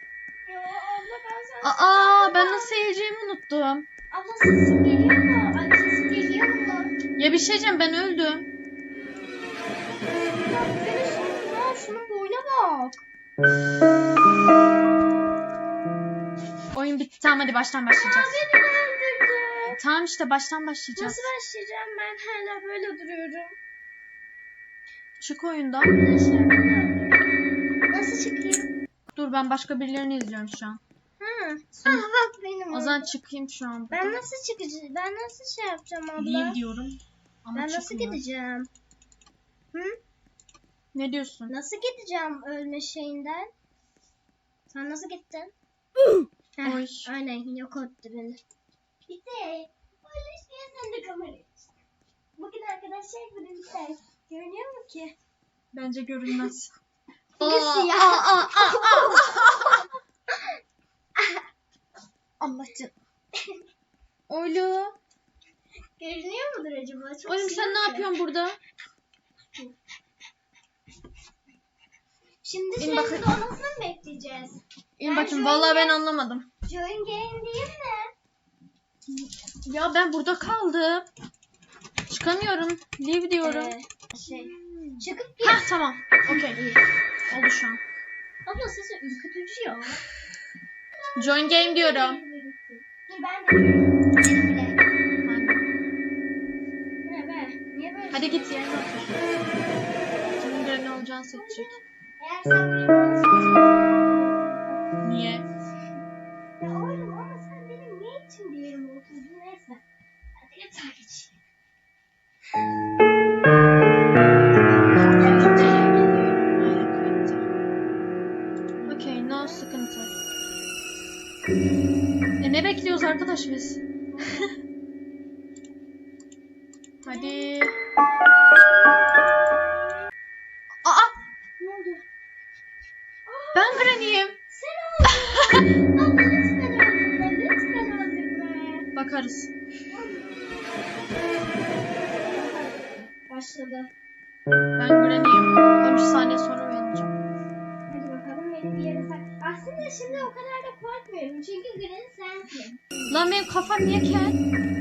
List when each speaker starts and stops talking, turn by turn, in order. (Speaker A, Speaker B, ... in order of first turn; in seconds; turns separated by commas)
Speaker A: 0.5-2.7, Speaker B: 1.6-3.9, Speaker A: 4.1-6.9, Speaker B: 7.2-8.4, Speaker A: 10.1-13.0, Speaker B: 16.7-18.4, Speaker A: 17.9-19.8, Speaker B: 19.7-21.3, Speaker A: 20.9-23.6, Speaker B: 25.2-25.9, Speaker A: 25.8-27.3, Speaker A: 27.9-28.7, Speaker B: 29.1-30.8, Speaker A: 31.2-33.1, Speaker B: 32.7-34.2, Speaker A: 33.9-36.6, Speaker B: 36.2-38.2, Speaker A: 37.5-38.7, Speaker A: 39.7-40.0, Speaker B: 40.9-41.5, Speaker A: 41.5-43.5, Speaker A: 44.7-45.5, Speaker A: 46.6-48.4, Speaker B: 46.6-47.1, Speaker A: 49.1-51.7, Speaker A: 52.4-55.1, Speaker B: 55.7-56.7, Speaker B: 57.4-59.9, Speaker A: 57.4-59.9, Speaker B: 62.4-62.9, Speaker B: 64.3-65.0, Speaker A: 66.0-68.1, Speaker B: 67.2-68.6, Speaker A: 72.4-76.0, Speaker B: 72.8-73.4, Speaker B: 75.0-76.5, Speaker A: 76.7-78.1, Speaker B: 79.6-81.1, Speaker B: 82.1-83.7, Speaker A: 83.4-85.7, Speaker B: 84.2-86.6, Speaker A: 86.2-86.8, Speaker B: 87.3-87.8, Speaker A: 88.4-90.0, Speaker A: 91.0-94.8, Speaker B: 91.2-92.2, Speaker B: 95.2-95.7, Speaker A: 97.0-98.4, Speaker B: 98.1-99.2, Speaker B: 100.4-101.7, Speaker A: 101.2-104.9, Speaker B: 105.0-105.4, Speaker A: 106.6-109.8, Speaker A: 110.3-111.4, Speaker A: 114.7-116.0, Speaker B: 115.0-117.4, Speaker A: 118.8-119.6, Speaker B: 118.9-120.1, Speaker B: 122.4-123.8, Speaker A: 124.1-124.5, Speaker A: 127.0-127.6, Speaker B: 127.0-127.7, Speaker A: 128.5-130.0, Speaker B: 130.8-131.2, Speaker A: 131.6-132.0, Speaker A: 133.2-138.8, Speaker B: 133.5-134.4, Speaker B: 138.9-139.5, Speaker A: 139.9-140.3, Speaker A: 142.3-143.9, Speaker B: 144.8-147.1, Speaker A: 147.9-153.3, Speaker B: 153.1-154.4